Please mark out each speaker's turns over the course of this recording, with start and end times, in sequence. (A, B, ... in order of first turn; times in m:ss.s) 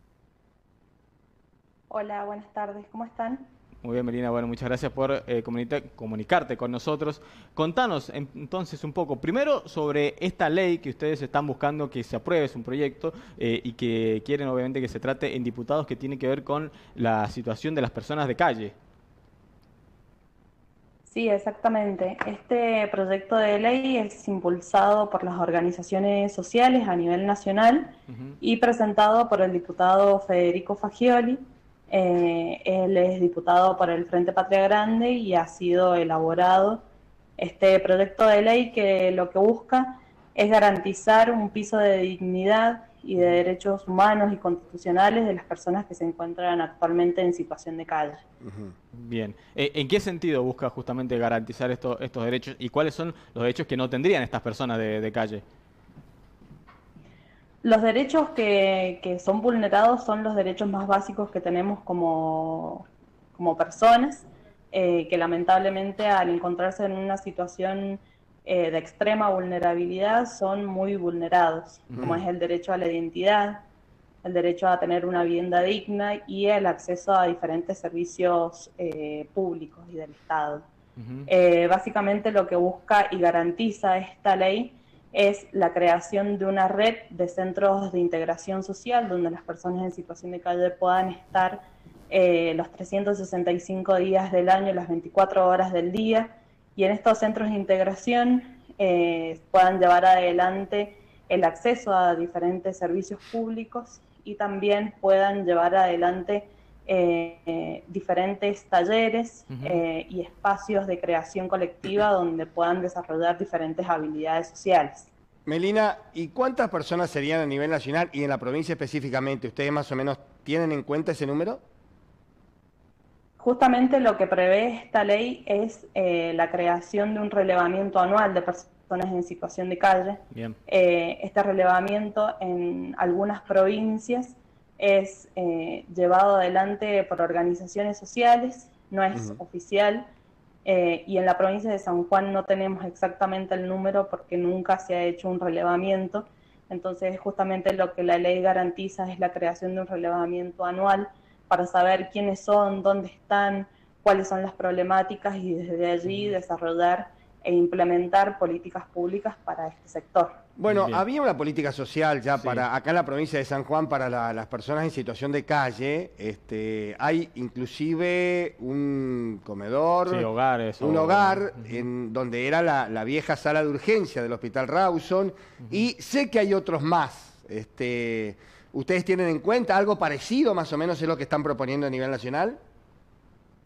0:01.9-0:03.5 A
0:03.8-0:18.7 B
0:21.1-0:36.8 A
0:28.1-0:28.4 B
0:37.4-0:48.2 A
0:48.4-0:48.7 C
0:48.9-0:55.4 B
0:57.6-1:13.6 A
1:11.9-1:12.2 B
1:14.2-1:20.6 A
1:21.0-1:21.3 B
1:21.3-1:55.1 A
1:49.5-1:49.8 B
1:55.4-2:01.6 C
2:03.4-2:20.0 A
2:20.6-2:40.4 A
2:36.0-2:36.3 B
2:40.6-2:50.3 C
2:40.7-2:41.0 B
2:42.4-2:42.6 B
2:50.0-2:51.8 B
2:50.8-3:02.6 C
2:55.6-2:55.9 B